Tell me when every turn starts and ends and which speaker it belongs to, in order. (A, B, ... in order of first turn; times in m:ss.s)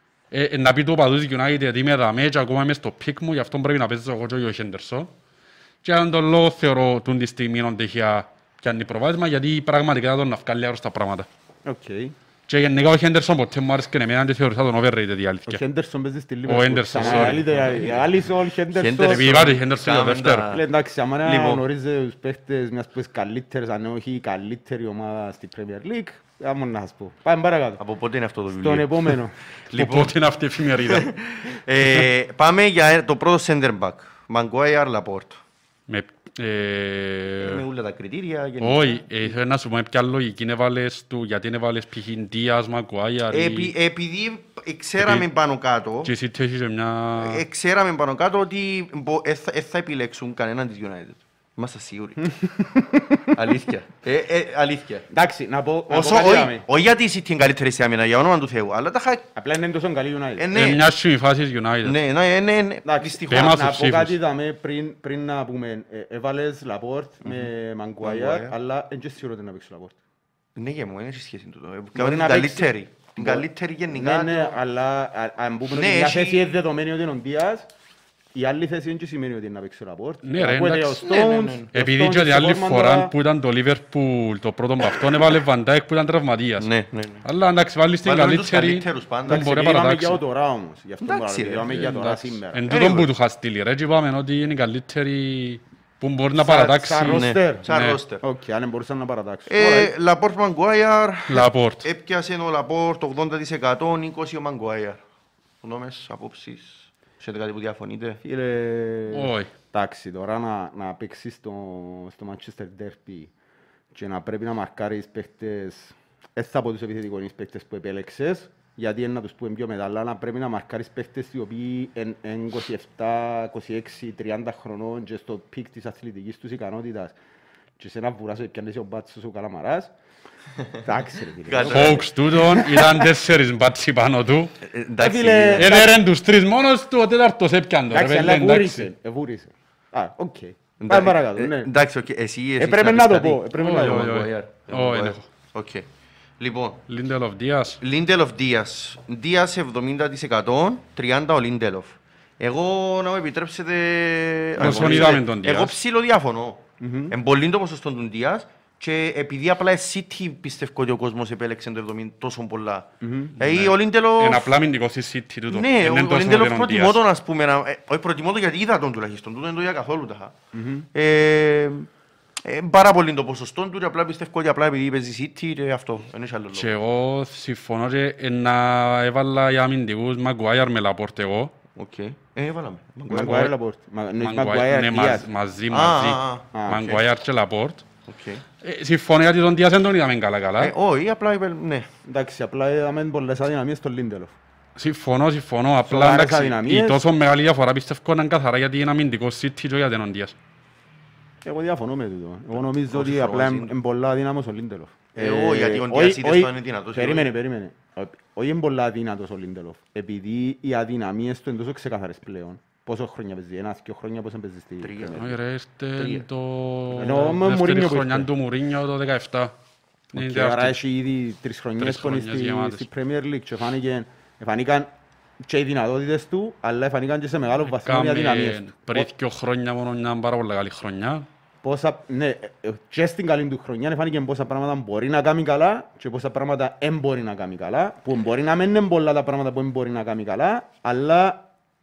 0:00.3-0:05.1 A
0:05.8-0:11.3 A
0:11.6-0:12.1 B
0:12.5-0:15.6 A
0:15.5-0:19.4 B
0:16.4-0:17.9 A
0:17.0-0:18.0 C
0:18.7-0:20.6 C
0:19.0-0:20.6 A
0:20.5-0:27.8 B
0:21.2-0:21.6 C
0:27.8-0:29.2 C
0:28.5-0:29.4 B
0:29.7-0:30.2 C
0:29.7-0:31.1 A
0:30.8-0:35.4 C
0:35.9-0:37.6 A
0:37.4-0:39.3 C
0:38.6-0:43.7 A
0:43.3-0:46.1 C
0:45.0-0:45.2 A
0:46.0-0:47.4 A
0:47.2-0:52.2 C
0:52.2-0:53.3 B
0:53.3-0:55.0 C
0:55.1-0:56.6 B
0:55.9-0:59.2 C
0:59.3-1:00.5 B
1:00.4-1:00.9 C
1:00.5-1:02.0 A
1:01.8-1:03.7 C
1:02.8-1:10.0 B
1:03.3-1:04.2 A
1:07.2-1:07.5 C
1:08.0-1:08.5 C
1:10.5-1:14.6 C
1:11.9-1:17.7 B
1:15.7-1:16.4 C
1:18.3-1:23.1 B
1:20.2-1:21.1 A
1:21.0-1:21.7 C
1:21.7-1:26.7 A
1:26.6-1:27.2 C
1:27.2-1:30.2 A
1:28.0-1:29.6 C
1:29.3-1:32.6 B
1:31.0-1:33.1 C
1:32.5-1:38.0 A
1:36.3-1:37.6 B
1:37.0-1:38.2 C
1:38.2-1:39.9 B
1:39.5-1:45.0 C
1:41.3-1:41.9 A
1:45.6-1:48.2 C
1:48.2-1:53.3 B
1:49.1-1:49.5 A
1:53.9-2:07.1 B
2:07.8-2:09.9 B
2:10.8-2:13.1 B
2:11.4-2:12.1 C
2:11.6-2:14.5 A
2:14.6-2:15.8 C
2:15.0-2:16.0 B
2:15.6-2:18.9 A
2:17.9-2:21.7 B
2:20.8-2:25.9 C
2:22.6-2:24.2 B
2:23.5-2:25.3 A
2:26.4-2:26.9 C
2:26.9-2:27.8 A
2:27.8-2:44.6 C
2:34.6-2:35.8 A
2:34.7-2:35.0 B
2:36.8-2:37.1 B
2:43.0-2:43.3 B
2:43.4-2:47.0 A
2:45.5-2:50.4 C
2:50.5-2:50.9 B
2:50.9-2:51.9 C
2:52.4-2:56.7 C
2:56.5-3:01.5 A
3:01.8-3:03.5 C
3:03.1-3:05.3 B
3:03.2-3:03.5 A
3:04.2-3:07.8 A
3:05.7-3:07.0 C
3:06.5-3:07.0 B
3:08.0-3:08.4 C
3:08.6-3:10.7 A
3:10.6-3:11.9 C
3:12.0-3:14.3 B
3:14.8-3:20.3 A
3:15.8-3:17.0 B
3:21.4-3:35.3 B
3:22.6-3:23.8 C
3:25.1-3:27.3 C
3:34.8-3:35.3 C
3:35.2-3:39.5 A
3:36.0-3:36.3 C
3:36.9-3:38.3 B
3:40.1-3:40.8 A
3:40.1-3:44.9 B
3:41.8-3:42.8 A
3:45.4-3:49.1 B
3:47.6-3:51.2 A
3:51.6-4:01.4 B